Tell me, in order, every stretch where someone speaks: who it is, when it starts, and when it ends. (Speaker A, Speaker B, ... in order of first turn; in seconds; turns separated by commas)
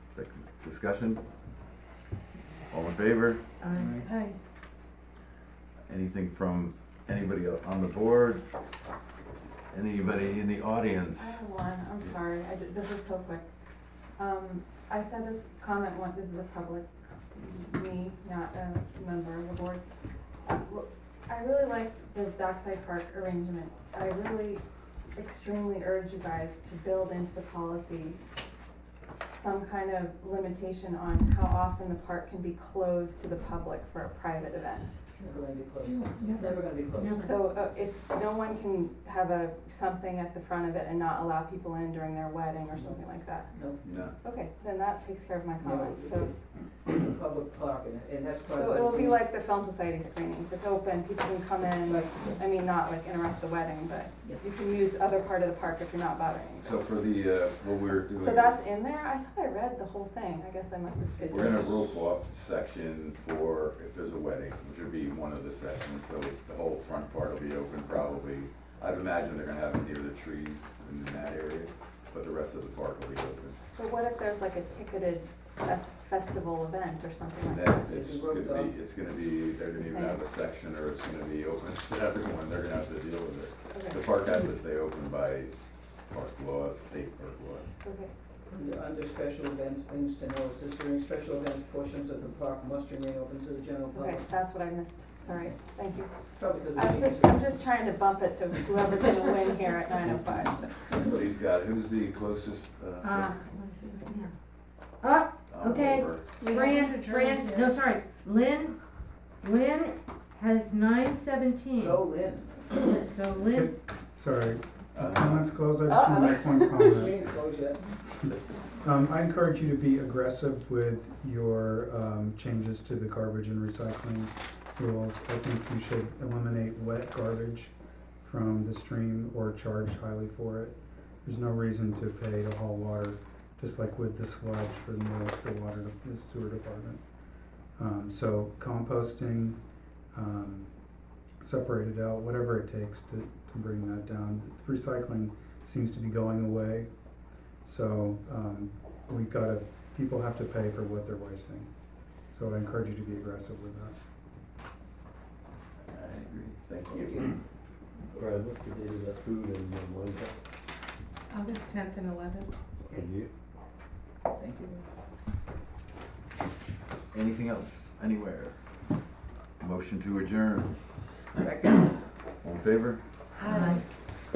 Speaker A: 0.1-1.2, Speaker A: 2.7-3.4, Speaker B: 3.6-4.3, Speaker C: 3.8-4.1, Speaker A: 5.9-8.4, Speaker A: 9.7-11.4, Speaker D: 11.2-13.4, Speaker D: 14.2-19.8, Speaker D: 20.4-24.6, Speaker D: 25.1-28.2, Speaker D: 29.3-35.0, Speaker C: 35.1-37.2, Speaker B: 35.8-36.1, Speaker B: 37.0-37.3, Speaker D: 37.1-43.5, Speaker C: 43.5-43.9, Speaker A: 43.8-44.1, Speaker D: 44.2-46.3, Speaker C: 45.6-46.3, Speaker C: 46.9-49.2, Speaker D: 48.5-56.8, Speaker C: 51.9-52.4, Speaker A: 56.6-58.6, Speaker D: 58.2-61.7, Speaker A: 61.3-73.6, Speaker D: 73.8-77.9, Speaker A: 77.5-85.5, Speaker C: 77.9-78.7, Speaker D: 79.8-80.2, Speaker D: 83.7-84.0, Speaker A: 86.1-87.7, Speaker D: 87.8-88.1, Speaker C: 88.5-94.3, Speaker D: 93.9-100.9, Speaker C: 96.4-97.4, Speaker A: 100.9-103.4, Speaker B: 103.0-104.3, Speaker B: 105.0-108.8, Speaker A: 105.5-106.2, Speaker C: 106.4-107.3, Speaker D: 106.5-107.6, Speaker B: 109.4-112.0, Speaker C: 111.8-113.0, Speaker B: 112.7-113.7, Speaker E: 113.5-117.2, Speaker A: 115.0-115.5, Speaker D: 115.9-117.0, Speaker C: 117.0-117.9, Speaker E: 118.8-137.0, Speaker E: 137.8-139.6, Speaker E: 140.1-140.7, Speaker E: 141.4-146.9, Speaker E: 147.6-151.7, Speaker E: 152.3-154.0, Speaker A: 155.9-157.3, Speaker C: 156.9-157.3, Speaker F: 158.2-160.3, Speaker D: 161.5-162.2, Speaker F: 162.9-163.3, Speaker C: 164.3-164.8, Speaker A: 167.1-168.6, Speaker A: 169.6-170.7, Speaker C: 171.3-171.9, Speaker A: 172.4-173.0, Speaker C: 173.4-173.8, Speaker B: 173.5-173.8